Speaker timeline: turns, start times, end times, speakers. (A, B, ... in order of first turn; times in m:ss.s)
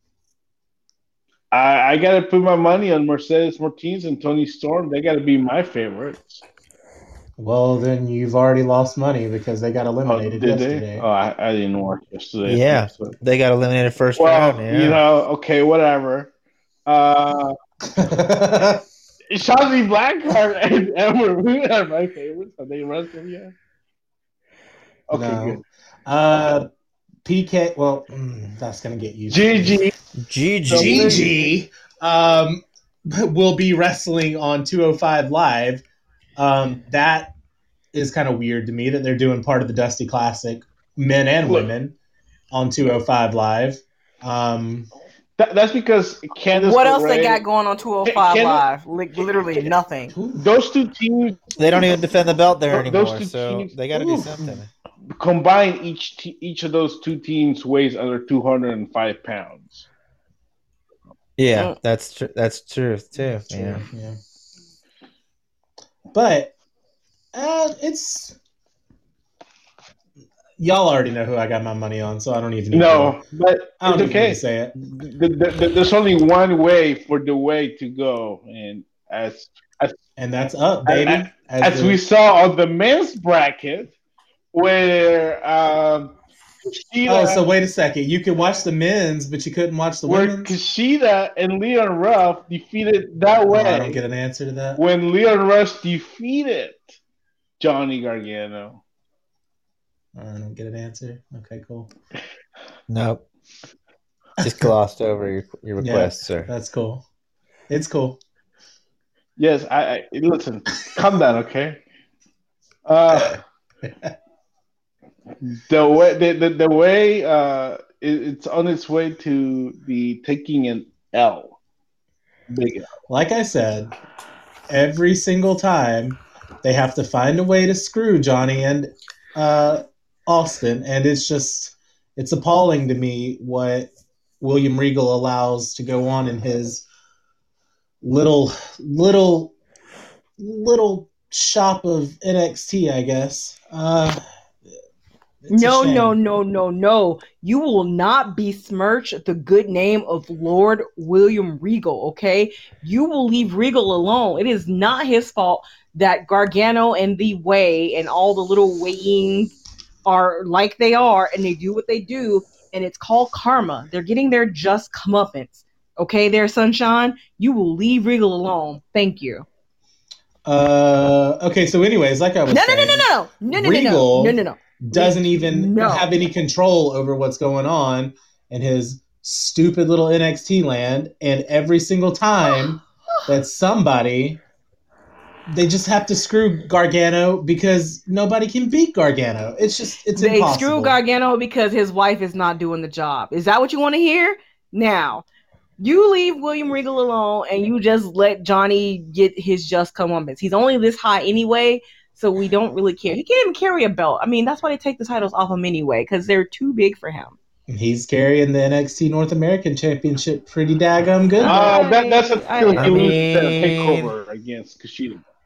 0:01.5-0:06.4 A
0:07.4-0:11.0 B
0:10.0-0:13.2 A
0:12.4-0:15.0 C
0:14.2-0:16.3 A
0:16.8-0:17.5 A
0:17.9-0:18.8 B
0:19.3-0:23.5 A
0:25.1-0:25.6 A
0:25.1-0:26.6 B
0:27.2-0:29.8 B
0:29.3-0:29.9 A
0:30.2-0:31.3 C
0:30.6-0:31.5 A
0:30.7-0:35.8 B
0:36.4-0:37.3 B
0:37.9-0:41.9 B
0:42.5-0:44.9 B
0:45.4-0:47.4 A
0:46.5-0:50.1 D
0:48.0-0:48.6 A
0:50.1-0:50.5 B
0:50.3-0:52.1 A
0:51.6-0:54.7 C
0:52.7-0:54.3 A
0:55.2-0:59.8 A
1:01.4-1:03.8 C
1:03.2-1:04.2 B
1:06.1-1:06.5 B
1:07.3-1:08.4 B
1:10.6-1:13.2 B
1:12.7-1:20.0 A
1:13.8-1:14.7 B
1:20.2-1:22.0 B
1:20.9-1:23.9 A
1:24.5-1:27.4 A
1:27.0-1:30.5 B
1:30.1-1:34.0 A
1:33.5-1:34.8 B
1:34.8-1:36.9 A
1:37.6-1:38.8 A
1:40.1-1:41.9 B
1:42.9-1:43.2 C
1:44.4-1:46.5 C
1:44.4-1:44.7 B
1:45.8-1:47.0 B
1:47.7-1:48.2 B
1:49.4-1:51.8 A
1:52.8-1:53.4 A
1:53.1-1:54.1 B
1:55.4-2:01.6 A
2:02.5-2:02.9 A
2:03.1-2:03.9 B
2:04.7-2:16.8 B
2:18.0-2:19.5 B
2:20.4-2:24.2 B
2:25.4-2:26.2 B
2:25.5-2:49.4 D
2:50.4-3:04.4 B
2:52.5-2:56.1 D
3:05.5-3:11.0 B
3:10.2-3:15.2 D
3:15.8-3:27.4 D
3:27.7-3:31.7 B
3:31.4-3:33.2 D
3:31.4-3:35.2 A
3:32.8-3:34.1 C